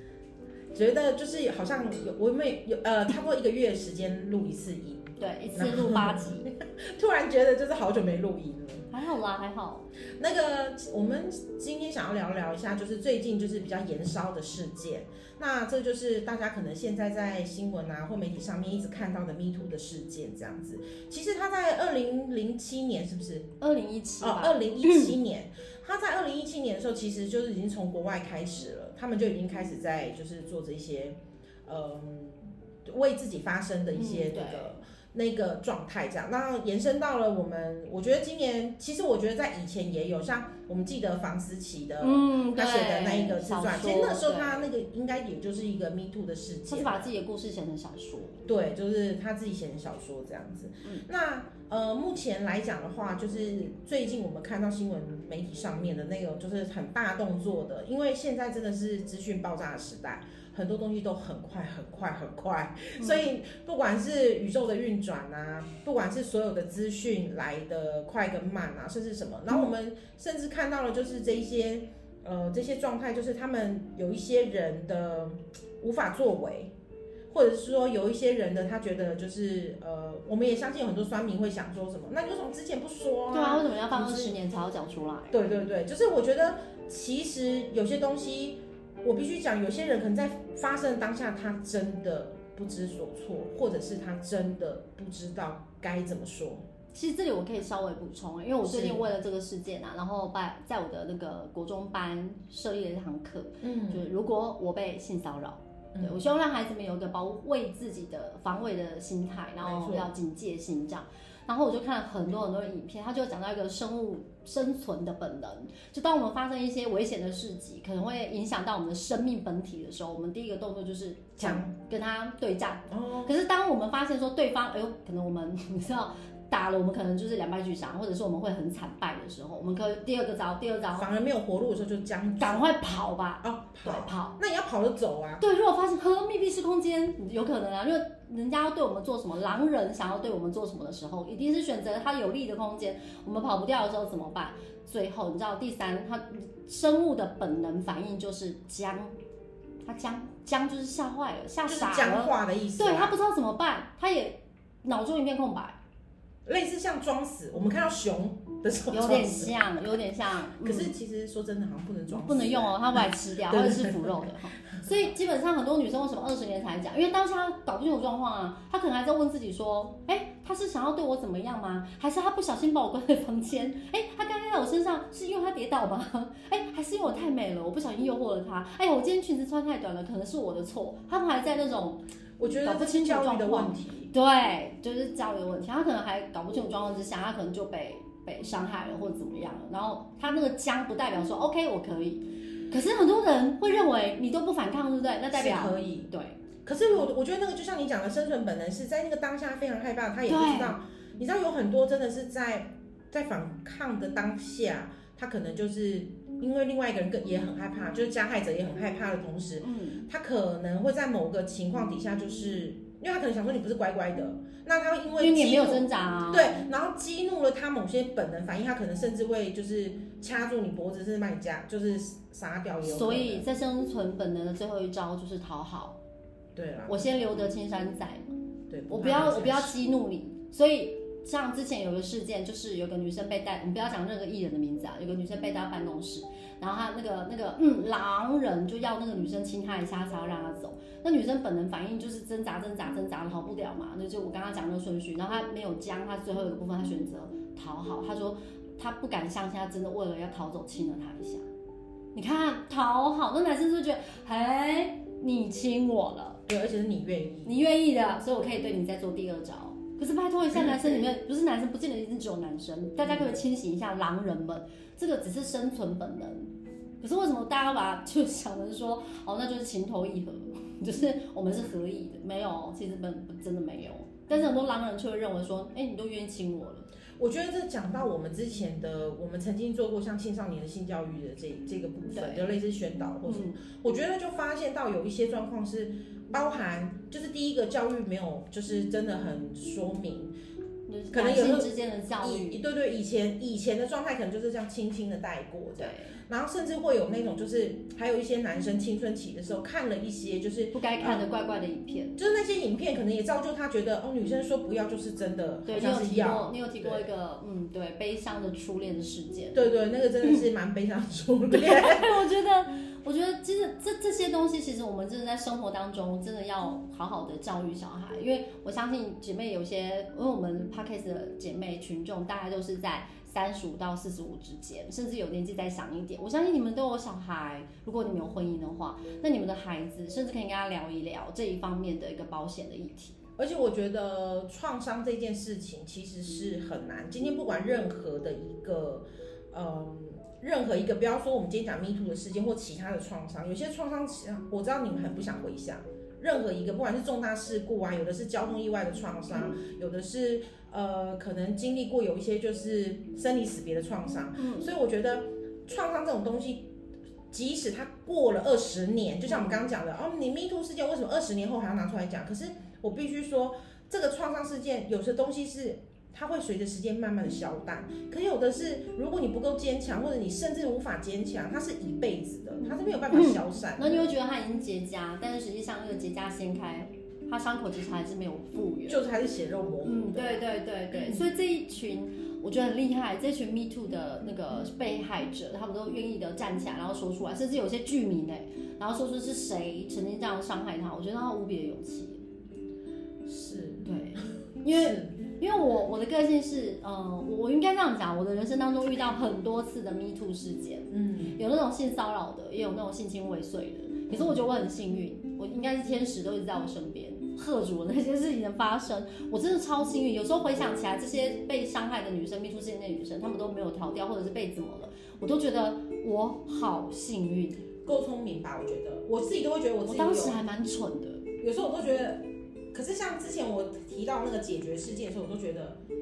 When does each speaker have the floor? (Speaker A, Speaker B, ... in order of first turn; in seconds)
Speaker A: 0.7-8.9, 10.2-23.5, 24.2-47.1, 48.4-76.7, 77.3-84.3, 85.3-96.6, 98.6-99.0, 103.6-104.0, 105.9-106.2, 109.6-110.1, 121.4-121.7, 122.9-123.3, 130.9-132.7, 133.4-135.4, 151.7-153.2, 156.4-159.8, 160.6-164.2, 182.4-184.1, 195.3-196.1, 196.6-223.4, 226.6-227.3, 228.7-229.8, 256.5-257.6, 260.5-261.0, 263.0-263.3, 277.2-290.3, 291.1-301.2, 302.2-307.1, 309.5-312.1, 333.4-356.7, 357.3-374.1, 378.9-381.2, 393.2-395.1, 400.9-401.4, 404.1-404.4, 417.8-420.4, 421.4-425.8
Speaker B: 5.2-6.5, 8.9-9.9, 23.6-25.1, 33.9-34.7, 42.0-44.7, 46.7-48.4, 63.0-63.2, 83.3-85.4, 96.9-131.1, 132.4-134.4, 135.4-149.2, 149.8-155.8, 158.9-160.9, 162.1-196.4, 200.3-200.8, 209.6-210.0, 215.2-216.6, 222.8-225.9, 226.9-228.3, 228.9-251.4, 252.1-256.4, 257.4-276.9, 282.1-282.5, 283.2-283.6, 290.9-292.6, 295.8-296.2, 300.7-302.2, 305.7-309.6, 311.5-333.2, 354.4-354.7, 359.3-359.6, 373.1-379.0, 379.8-392.2, 393.8-417.6, 419.9-421.2